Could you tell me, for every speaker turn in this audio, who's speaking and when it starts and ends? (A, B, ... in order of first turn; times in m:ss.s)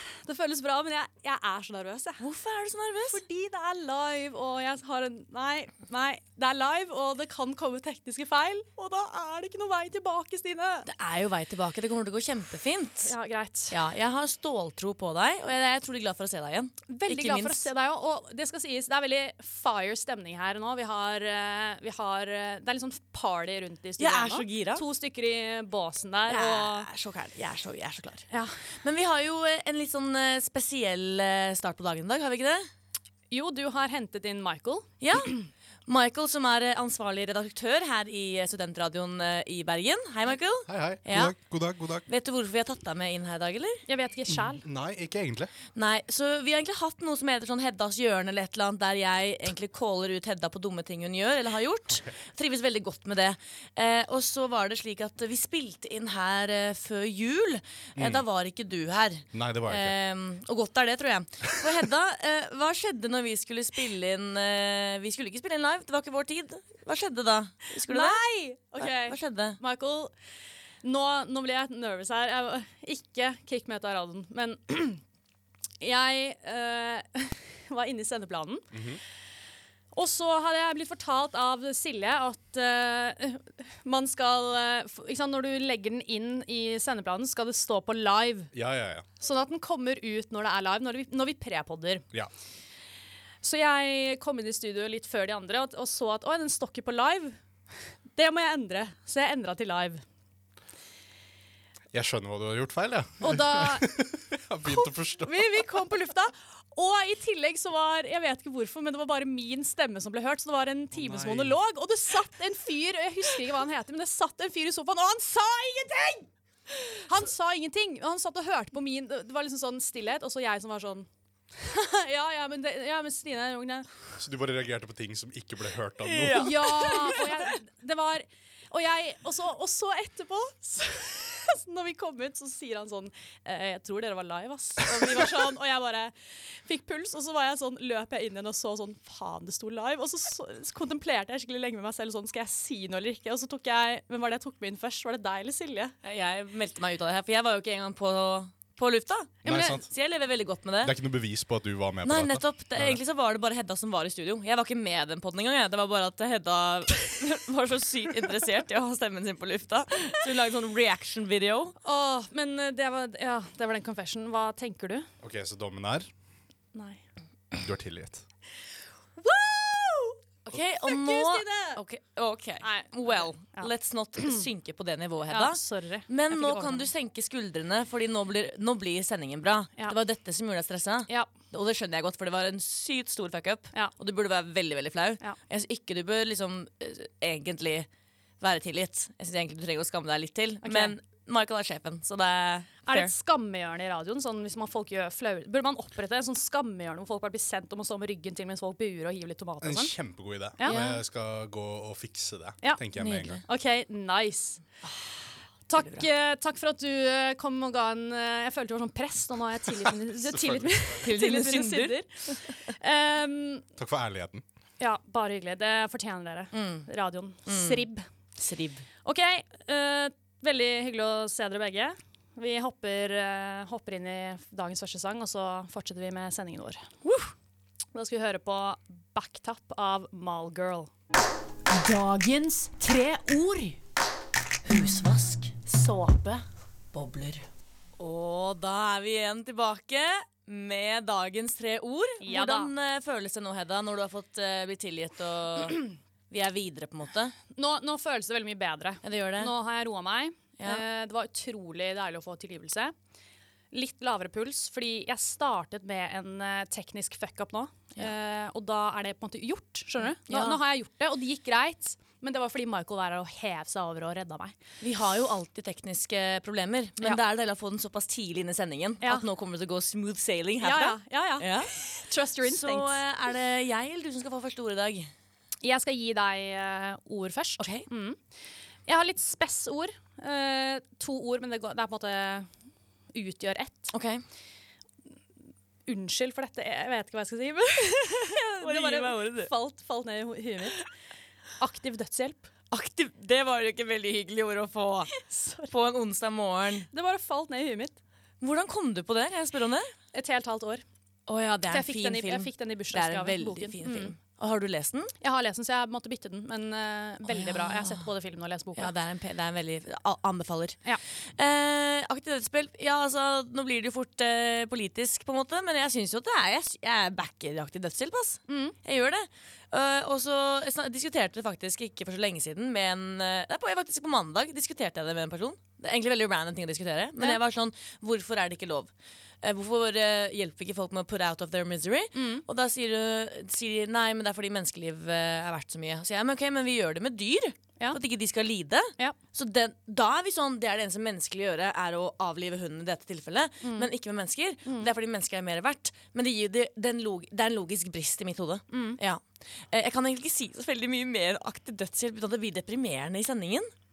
0:00.2-0:02.2 A
0:02.2-0:03.2 B
0:03.1-0:10.9 A
0:10.8-0:13.1 B
0:13.0-0:13.7 A
0:13.7-0:17.7 B
0:16.9-0:26.9 A
0:24.0-0:24.8 B
0:26.3-0:28.3 B
0:28.8-0:32.7 B
0:33.3-0:34.9 A
0:35.0-0:41.3 B
0:40.7-0:42.0 C
0:42.1-0:43.8 B
0:43.9-0:44.6 A
0:44.3-0:45.5 C
0:45.7-1:08.2 B
0:58.0-0:58.2 C
0:59.3-1:00.0 C
1:07.9-1:10.1 A
1:08.8-1:09.6 B
1:10.8-1:15.0 A
1:15.8-1:18.7 A
1:18.7-1:19.0 C
1:19.9-1:28.5 A
1:28.5-1:29.0 C
1:29.2-1:32.0 A
1:33.4-1:37.4 A
1:38.2-1:40.0 A
1:41.9-1:45.6 C
1:43.2-1:43.9 A
1:44.6-1:56.3 A
1:50.9-1:51.6 C
1:56.9-2:03.9 A
2:04.2-2:07.2 C
2:06.0-2:07.2 B
2:06.2-2:25.9 A
2:26.0-2:30.9 B
2:29.4-2:29.8 C
2:29.5-2:29.7 A
2:30.8-2:33.0 C
2:32.0-2:41.7 B
2:41.8-2:45.1 A
2:45.2-2:46.1 C
2:46.7-2:47.0 A
2:47.5-2:48.2 C
2:49.2-2:50.2 A
2:50.4-3:07.9 B
2:50.8-2:51.8 A
2:52.6-2:54.4 A
2:55.3-2:56.9 A
3:08.4-3:13.1 B
3:10.6-3:10.9 A
3:12.9-3:19.9 A
3:19.6-3:23.4 C
3:20.6-3:20.9 A
3:20.6-3:21.0 B
3:23.0-3:23.4 B
3:23.4-3:24.6 A
3:25.7-3:33.6 A
3:25.8-3:26.1 B
3:29.8-3:30.9 C
3:31.0-3:32.0 B
3:33.8-3:34.4 C
3:34.8-3:38.0 A
3:36.5-3:36.8 B
3:37.5-3:37.8 B
3:38.4-3:38.8 B
3:39.0-3:47.3 A
3:47.9-3:50.9 A
3:51.7-3:53.8 A
3:54.6-3:55.6 B
3:55.6-3:56.4 A
3:56.9-3:57.4 B
3:58.0-4:07.3 B
4:02.2-4:02.7 A
4:07.5-4:12.9 A
4:09.0-4:09.5 B
4:10.6-4:10.8 B
4:13.7-4:24.5 A
4:20.2-4:20.6 B
4:24.8-4:31.9 B
4:30.6-4:32.9 A
4:32.4-4:35.1 B
4:35.6-4:38.2 A
4:37.6-4:37.8 B
4:38.9-4:42.5 A
4:43.1-4:43.9 A
4:43.9-4:44.2 B
4:45.9-4:50.8 A
4:48.5-4:49.5 B
4:51.6-4:52.5 A
4:52.7-4:55.1 B
4:55.1-4:55.7 A
4:55.7-4:56.9 B
4:56.9-4:58.0 A
4:58.4-4:59.9 B
5:00.1-5:00.8 A
5:01.3-5:05.1 B
5:01.7-5:04.1 A
5:05.2-5:08.9 A
5:07.3-5:08.0 B
5:08.8-5:10.8 B
5:11.4-5:28.9 B
5:18.5-5:18.8 A
5:29.4-5:53.7 B
5:32.1-5:32.4 A
5:43.6-5:43.9 A
5:48.7-5:49.0 A